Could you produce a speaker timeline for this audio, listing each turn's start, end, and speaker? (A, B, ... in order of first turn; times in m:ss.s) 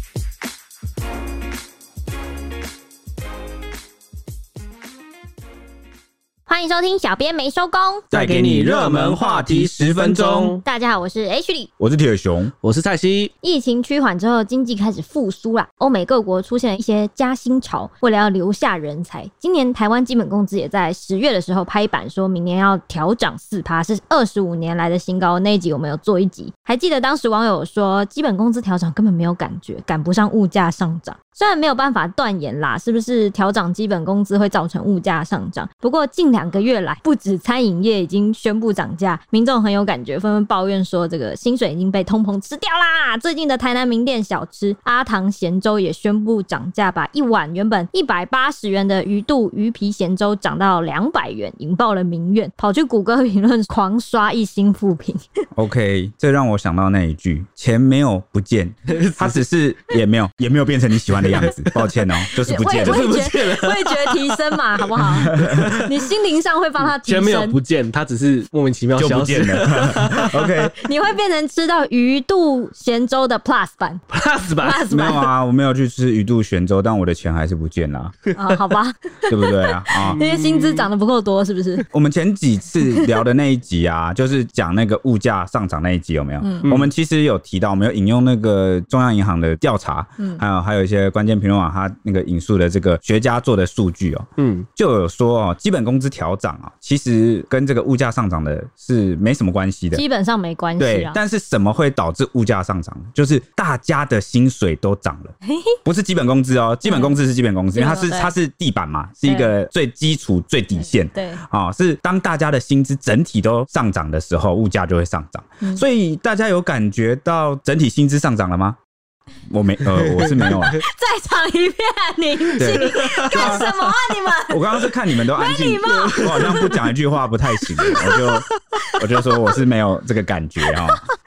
0:06.5-0:08.0 A
0:08.1-0:10.6 B
0:08.1-0:10.6 C
0:10.6-0:11.7 A
0:11.8-0:12.5 C
0:12.6-0:13.3 B
0:13.4-0:55.2 A
0:55.5-1:03.1 C
0:58.9-0:59.4 B
1:01.1-1:01.9 B
1:02.3-1:07.6 A
1:02.7-1:06.0 B
1:05.2-1:05.8 C
1:06.8-1:10.5 B
1:09.0-1:10.8 C
1:10.8-1:14.0 A
1:14.1-1:14.8 B
1:14.6-1:15.3 A
1:14.9-1:18.2 C
1:18.3-1:18.6 B
1:18.3-1:21.8 A
1:19.3-1:20.2 C
1:20.0-1:20.9 B
1:21.9-1:40.0 C
1:22.8-1:23.1 A
1:26.4-1:26.7 A
1:26.6-1:26.9 B
1:34.4-1:34.6 B
1:39.9-1:41.2 A
1:40.8-1:58.8 C
1:45.4-1:45.7 A
1:46.8-1:47.2 A
1:47.7-1:48.3 A
1:49.2-1:49.5 A
1:50.8-1:51.4 A
1:59.5-2:00.8 C
2:00.0-2:00.6 B
2:00.6-2:06.8 A
2:02.6-2:03.7 C
2:02.8-2:03.7 B
2:04.5-2:11.0 C
2:05.9-2:06.8 B
2:07.8-2:08.2 A